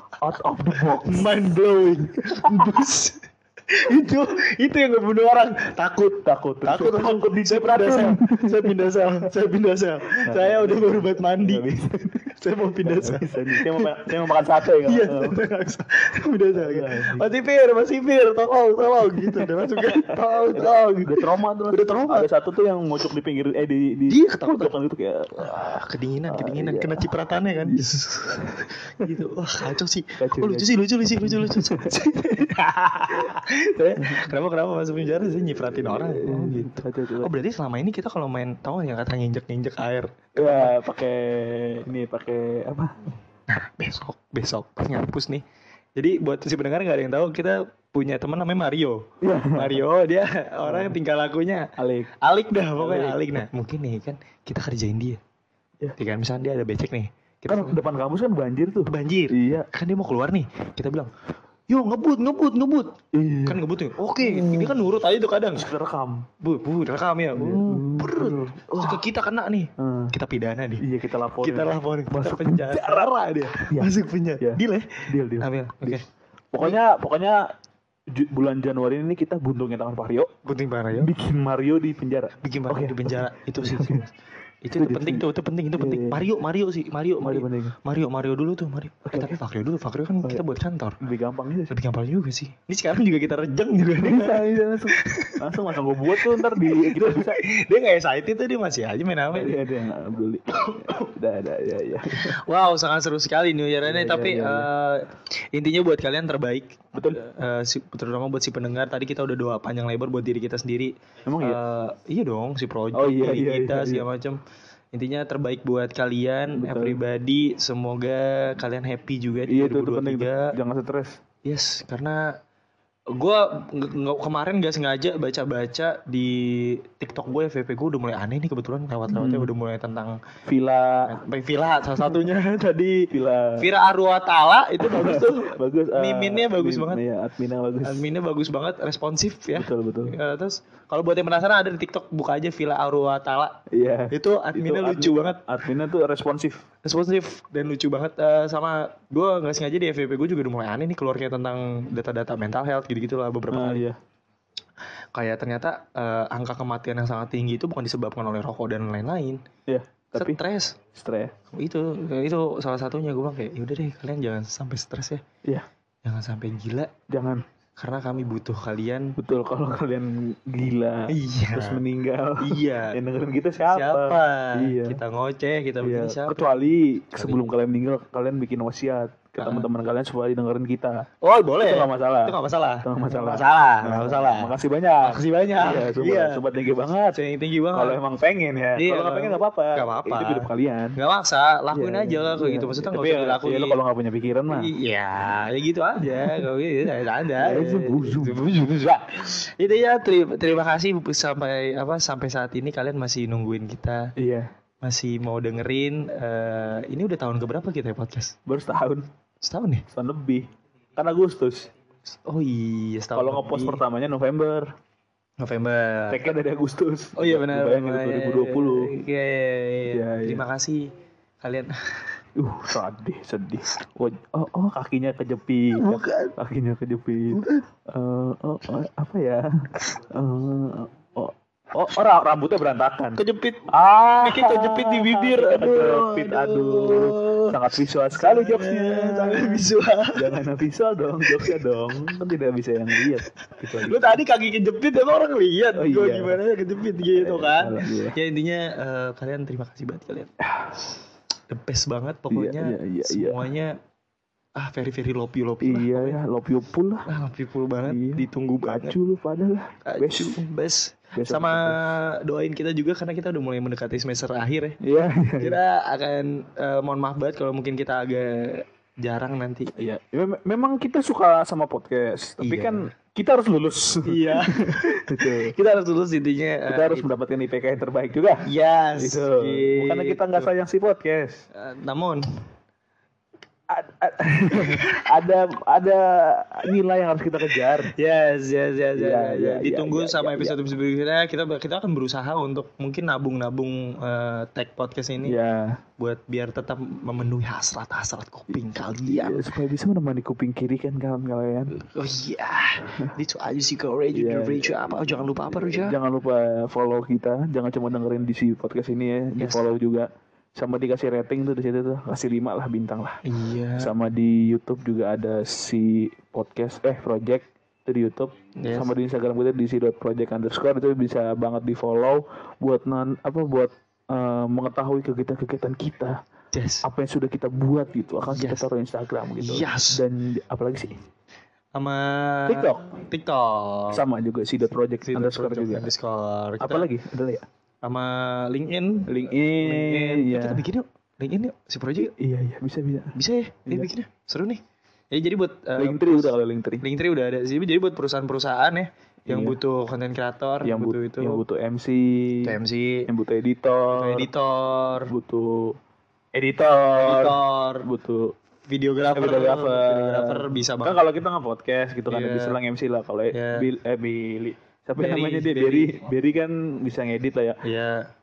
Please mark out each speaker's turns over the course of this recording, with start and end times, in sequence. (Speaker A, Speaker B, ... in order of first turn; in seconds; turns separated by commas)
Speaker A: 0.2-1.5, Speaker B: 0.8-14.1, Speaker A: 2.2-2.8, Speaker A: 6.2-8.8, Speaker A: 10.2-12.2, Speaker A: 12.8-15.4, Speaker B: 14.8-22.3, Speaker A: 16.5-17.3, Speaker A: 19.1-25.5, Speaker B: 24.1-24.7, Speaker B: 25.3-40.8, Speaker A: 26.3-27.1, Speaker A: 27.6-27.9, Speaker A: 30.2-30.7, Speaker A: 31.2-32.0, Speaker A: 33.3-34.3, Speaker A: 35.5-37.3, Speaker A: 40.4-43.1, Speaker B: 43.5-45.4, Speaker B: 46.0-55.2, Speaker A: 49.2-49.8, Speaker A: 50.6-50.9, Speaker A: 51.8-52.1, Speaker A: 52.8-53.4, Speaker B: 56.0-57.8, Speaker A: 57.5-59.7, Speaker B: 58.9-61.1, Speaker B: 61.7-65.7, Speaker A: 63.1-63.6, Speaker A: 64.2-64.8, Speaker A: 65.5-66.3, Speaker B: 66.4-70.8, Speaker A: 67.3-69.1, Speaker A: 69.8-70.1, Speaker A: 70.8-73.1, Speaker B: 71.4-76.0, Speaker A: 73.7-76.0, Speaker A: 76.5-77.5, Speaker A: 78.1-80.3, Speaker B: 80.4-81.1, Speaker A: 80.9-84.0, Speaker B: 82.4-84.1, Speaker B: 84.6-91.0, Speaker A: 84.8-86.2, Speaker A: 87.2-87.8, Speaker A: 89.0-89.3, Speaker A: 91.0-91.7, Speaker B: 91.7-95.5, Speaker A: 94.0-97.5, Speaker B: 96.0-99.6, Speaker A: 99.3-102.4, Speaker B: 100.7-101.1, Speaker B: 102.1-114.4, Speaker A: 103.8-104.7, Speaker A: 106.9-107.2, Speaker A: 111.2-111.6, Speaker A: 112.9-114.0, Speaker B: 114.9-120.5, Speaker A: 116.5-117.0, Speaker A: 119.5-121.2, Speaker B: 121.4-122.3, Speaker B: 123.1-130.2, Speaker A: 129.1-129.5, Speaker A: 130.4-131.2, Speaker B: 131.1-137.0, Speaker A: 133.1-133.7, Speaker A: 134.8-138.1, Speaker B: 137.8-145.4, Speaker A: 139.5-140.1, Speaker A: 143.7-146.6, Speaker B: 146.8-153.8, Speaker A: 153.5-154.0, Speaker B: 155.1-159.4, Speaker A: 159.7-160.4, Speaker B: 160.2-160.8, Speaker A: 160.9-161.3, Speaker B: 161.5-165.2, Speaker B: 166.0-166.9, Speaker A: 167.1-167.4, Speaker B: 167.8-169.2, Speaker A: 169.2-175.0, Speaker B: 171.1-171.8, Speaker B: 172.4-173.0, Speaker B: 173.7-176.5, Speaker A: 175.8-181.0, Speaker B: 177.1-177.4, Speaker B: 179.4-179.7, Speaker B: 181.2-186.4, Speaker A: 181.6-187.2, Speaker B: 187.1-188.0, Speaker A: 187.7-191.0, Speaker B: 188.8-193.8, Speaker A: 191.7-194.7, Speaker B: 194.5-204.1, Speaker A: 196.1-196.4, Speaker A: 197.4-198.9, Speaker A: 204.2-204.5, Speaker B: 204.8-208.3, Speaker A: 208.4-209.1, Speaker B: 209.4-209.8, Speaker A: 209.9-211.7, Speaker B: 212.3-213.8, Speaker A: 213.1-214.7, Speaker B: 215.4-216.2, Speaker A: 216.1-218.9, Speaker B: 217.2-220.9, Speaker A: 219.9-220.4, Speaker B: 221.4-222.0, Speaker A: 222.3-244.2, Speaker B: 225.7-226.3, Speaker B: 227.3-227.7, Speaker B: 233.2-233.7, Speaker B: 234.2-240.4, Speaker B: 241.3-241.6, Speaker B: 243.7-250.3, Speaker A: 245.7-246.4, Speaker A: 247.1-248.2, Speaker A: 250.4-250.8, Speaker B: 251.5-253.8, Speaker A: 252.3-253.4, Speaker B: 254.6-256.2, Speaker A: 255.6-257.1, Speaker B: 257.1-259.0, Speaker A: 257.9-260.4, Speaker B: 259.8-264.8, Speaker A: 261.1-261.9, Speaker A: 264.8-265.6, Speaker B: 265.4-269.7, Speaker A: 269.7-275.5, Speaker B: 272.4-272.9, Speaker B: 274.0-277.1, Speaker A: 276.7-278.4, Speaker B: 278.4-280.5, Speaker A: 279.0-281.4, Speaker B: 281.5-282.2, Speaker A: 283.7-287.9, Speaker B: 287.9-295.4, Speaker A: 288.9-290.6, Speaker A: 295.2-295.8, Speaker B: 296.0-299.5, Speaker A: 299.0-301.7, Speaker B: 301.7-306.0, Speaker A: 304.1-313.2, Speaker B: 309.4-309.6, Speaker B: 313.2-313.9, Speaker A: 313.8-326.2, Speaker B: 318.6-318.9, Speaker B: 326.5-326.8, Speaker A: 326.8-331.0, Speaker B: 328.3-328.6, Speaker B: 329.4-330.0, Speaker B: 331.8-334.0, Speaker A: 332.5-332.8, Speaker A: 333.9-335.9, Speaker B: 335.0-336.9, Speaker A: 336.6-337.4, Speaker B: 337.8-342.1, Speaker A: 339.1-340.6, Speaker A: 342.0-343.1, Speaker B: 343.1-344.6, Speaker B: 345.1-351.4, Speaker A: 345.8-346.8, Speaker A: 349.3-349.6, Speaker A: 350.6-352.6, Speaker B: 352.4-353.1, Speaker A: 353.1-354.3, Speaker B: 353.9-355.1, Speaker A: 355.1-355.8, Speaker A: 356.3-358.3, Speaker B: 356.9-357.9, Speaker B: 358.7-361.0, Speaker A: 359.1-367.6, Speaker B: 362.1-362.6, Speaker B: 363.3-363.7, Speaker B: 365.0-365.9, Speaker B: 367.6-368.0